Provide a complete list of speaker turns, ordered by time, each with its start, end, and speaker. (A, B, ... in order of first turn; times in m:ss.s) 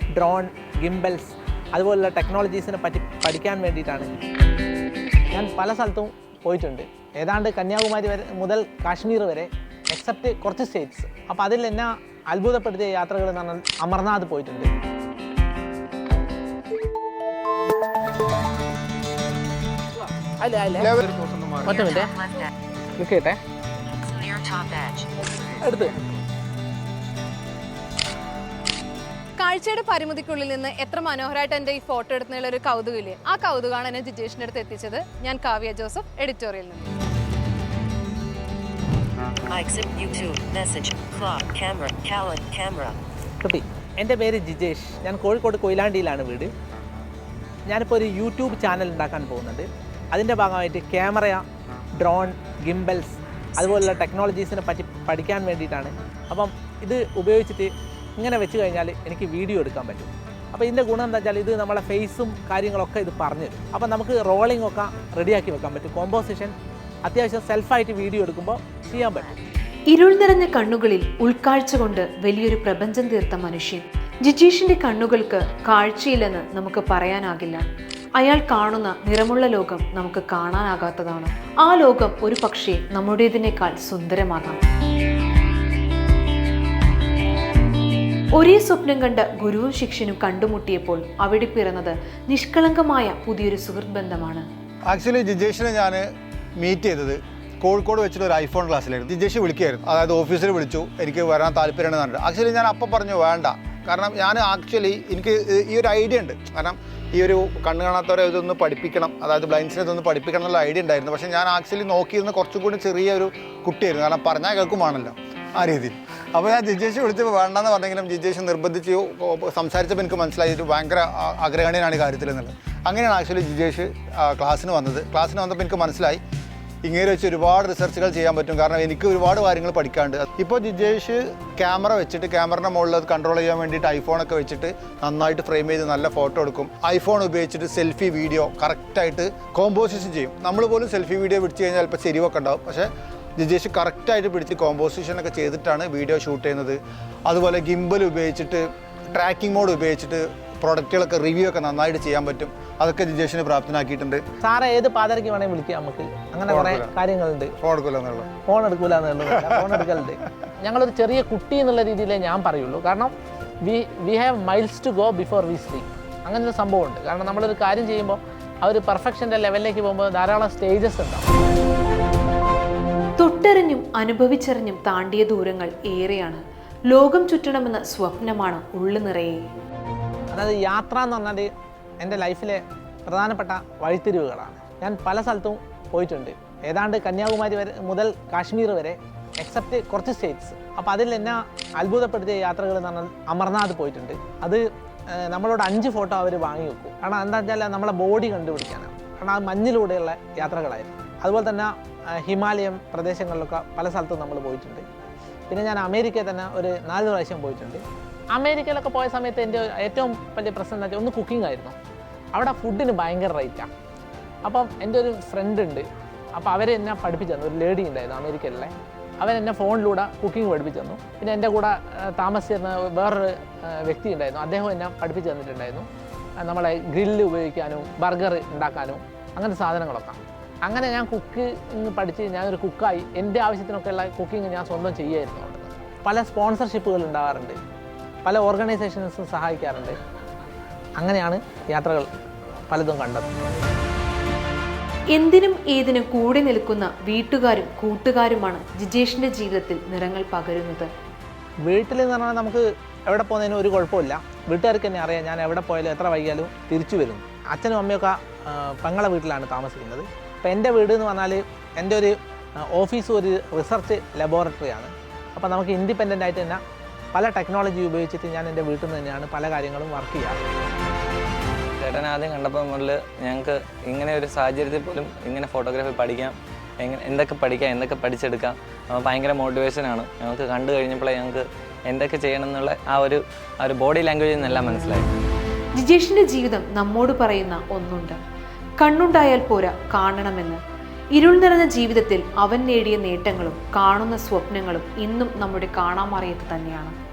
0:00.1-0:04.1 A
0:05.3-0:14.7 A
0:20.4-0:20.9 A
0:20.8-0:21.9 B
0:21.6-0:22.2 A
0:21.9-0:22.5 C
0:23.0-0:23.4 A
0:24.0-0:25.5 C
0:25.5-0:26.0 A
0:29.4-0:36.8 D
0:39.5-0:43.0 C
0:43.4-0:46.5 A
0:47.7-0:51.4 A
0:52.0-1:09.4 A
1:09.9-1:17.6 E
1:18.2-1:24.6 E
1:28.3-1:34.5 E
1:34.9-1:36.0 B
1:36.6-2:06.2 B
2:06.8-2:34.2 B
2:34.4-2:37.5 A
2:36.5-2:37.0 B
2:37.6-2:38.3 B
2:38.4-2:51.3 A
2:39.4-2:39.7 B
2:53.2-2:59.5 E
3:00.3-3:24.9 A
3:25.5-3:31.8 A
3:32.3-3:33.7 A
3:34.4-3:45.9 A
3:46.4-3:57.6 A
3:58.2-4:00.0 A
4:01.0-4:02.1 A
4:02.7-4:03.4 A
4:05.1-4:10.9 E
4:11.6-4:26.6 A
4:27.1-4:30.4 A
4:31.8-4:45.1 F
4:45.8-4:48.2 E
4:48.8-4:50.6 E
4:51.2-4:57.0 E